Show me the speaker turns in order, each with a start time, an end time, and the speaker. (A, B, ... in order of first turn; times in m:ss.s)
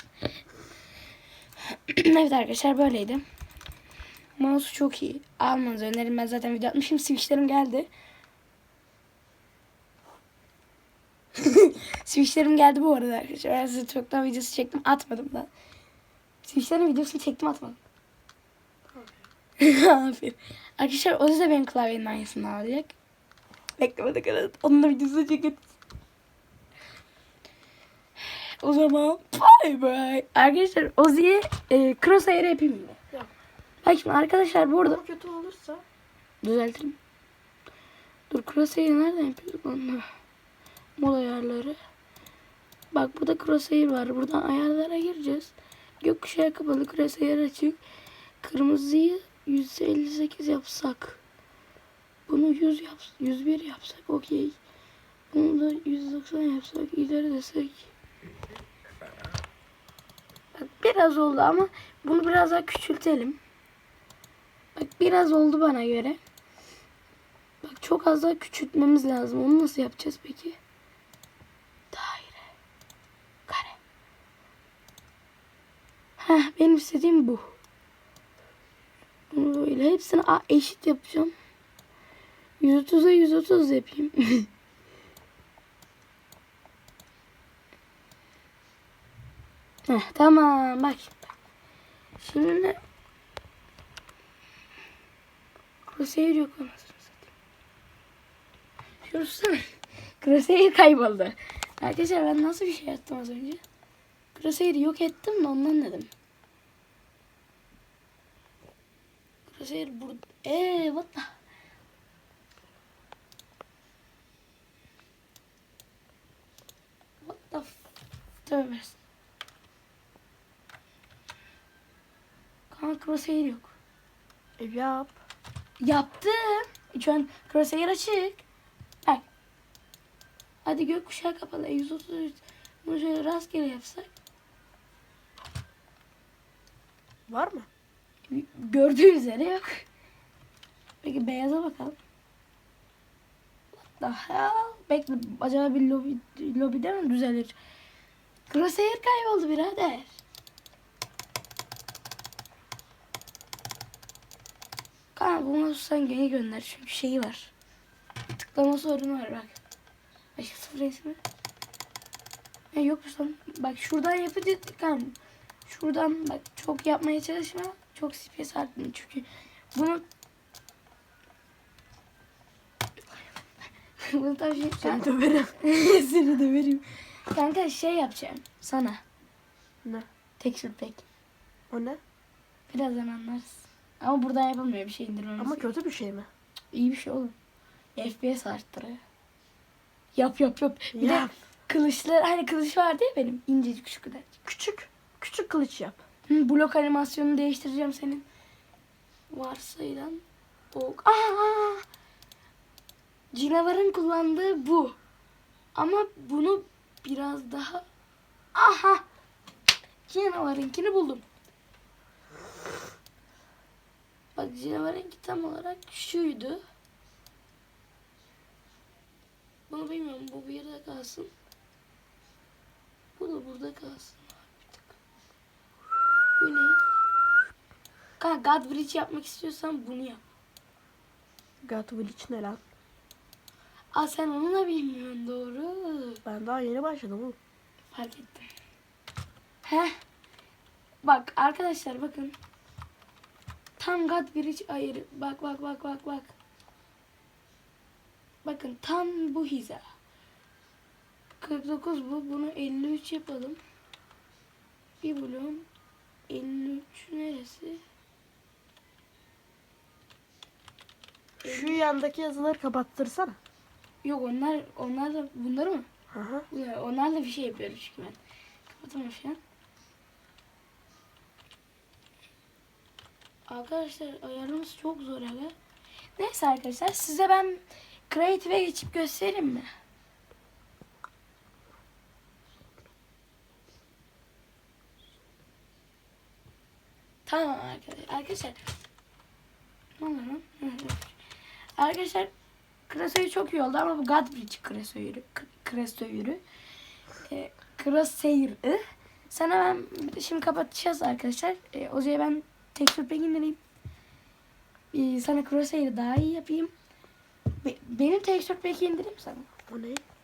0:01.9-0:03.2 A
0:04.4-0:07.9 A
0:11.4-0:15.5 A
0:16.4-0:17.8 A
0:18.9-0:19.2 B
0:19.6-0:22.9 A
0:23.8-0:25.6 A
0:28.6-0:33.0 A
0:33.8-0:35.0 A
0:34.8-0:35.8 B
0:36.4-0:37.0 A
0:38.3-0:40.0 A
0:41.0-0:41.8 A
0:42.9-0:47.8 A
0:48.4-0:51.2 A
0:52.3-0:54.6 A
0:55.3-0:57.9 A
1:00.5-1:03.4 A
1:04.8-1:06.2 A
1:07.6-1:10.6 A
1:11.9-1:12.4 A
1:13.5-1:13.8 A
1:16.2-1:17.5 A
1:19.3-1:21.3 A
1:22.6-1:24.5 A
1:29.9-1:31.2 A
1:32.2-1:32.8 A
1:35.9-1:37.1 A
1:39.0-1:39.6 A
1:40.2-1:43.6 A
1:44.3-1:46.1 A
1:49.5-1:51.3 A
1:57.2-1:57.8 A
1:58.4-1:59.0 A
2:02.7-2:03.7 A
2:04.6-2:05.2 B
2:05.8-2:08.4 A
2:10.6-2:14.1 A
2:17.3-2:17.7 B
2:18.3-2:19.8 A
2:21.0-2:22.0 A
2:23.8-2:27.5 A
2:28.5-2:30.1 A
2:35.1-2:37.5 A
2:38.4-2:39.6 A
2:40.4-2:41.2 A
2:42.7-2:50.0 A
2:54.0-2:55.0 A
2:54.7-2:55.5 B
2:55.6-2:59.0 A
3:00.4-3:01.0 A
3:01.7-3:02.0 B
3:02.7-3:05.7 A
3:05.4-3:06.3 B
3:06.7-3:07.3 A
3:08.0-3:09.0 A
3:10.1-3:14.3 A
3:10.9-3:11.3 B
3:14.4-3:16.0 B
3:16.3-3:18.2 A
3:19.3-3:20.2 A
3:20.7-3:21.8 A
3:23.3-3:25.0 A
3:25.7-3:27.8 A
3:28.5-3:29.0 A
3:30.1-3:31.2 A
3:34.3-3:36.6 A
3:39.7-3:41.3 A
3:43.2-3:44.8 A
3:46.4-3:46.8 A
3:48.2-3:50.2 A
3:51.6-3:52.6 B
3:53.9-3:56.2 A
3:56.2-3:57.4 B
3:57.9-3:58.5 A
3:59.6-3:59.9 A
4:01.0-4:02.4 A
4:03.8-4:06.3 A
4:08.4-4:09.8 A
4:11.4-4:13.6 A
4:15.0-4:15.6 A
4:16.3-4:17.8 A
4:21.4-4:23.4 B
4:21.4-4:21.7 A
4:24.0-4:25.9 A
4:26.1-4:26.5 B
4:26.5-4:28.2 A
4:28.7-4:29.4 A
4:33.5-4:35.5 A
4:36.2-4:39.7 A
4:47.2-4:48.6 A
4:50.0-4:51.1 A
4:51.8-4:52.3 A
4:52.9-4:56.4 A
4:57.3-5:03.6 A
5:04.9-5:06.7 A
5:07.6-5:09.5 A
5:09.7-5:10.0 B